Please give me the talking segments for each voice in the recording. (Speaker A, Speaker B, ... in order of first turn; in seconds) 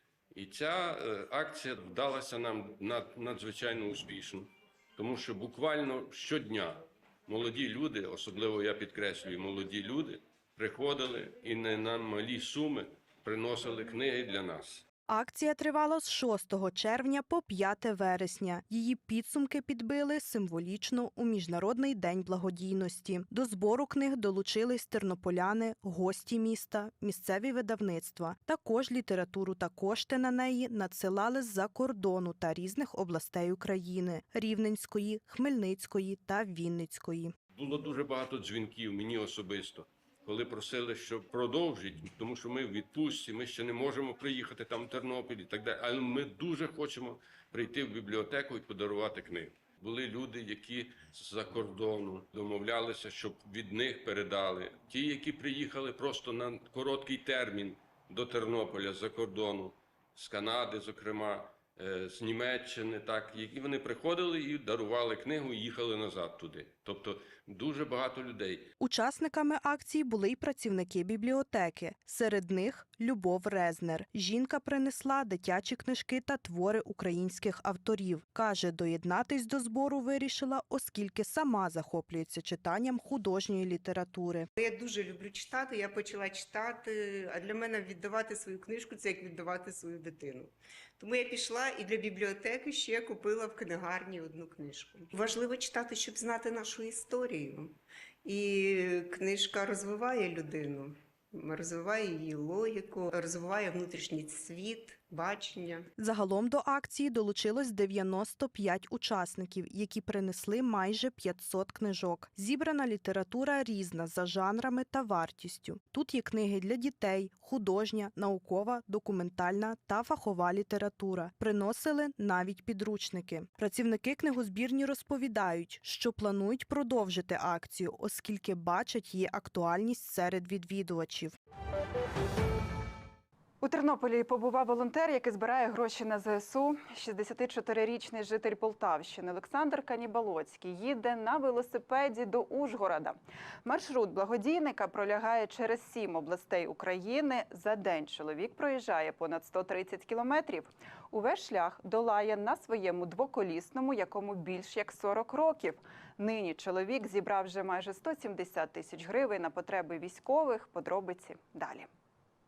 Speaker A: 0.3-14.8, 37.5-68.7
Speaker B: 15.1-37.3, 68.8-84.5, 106.0-131.3
Speaker C: 84.6-105.9
Speaker D: 133.6-161.9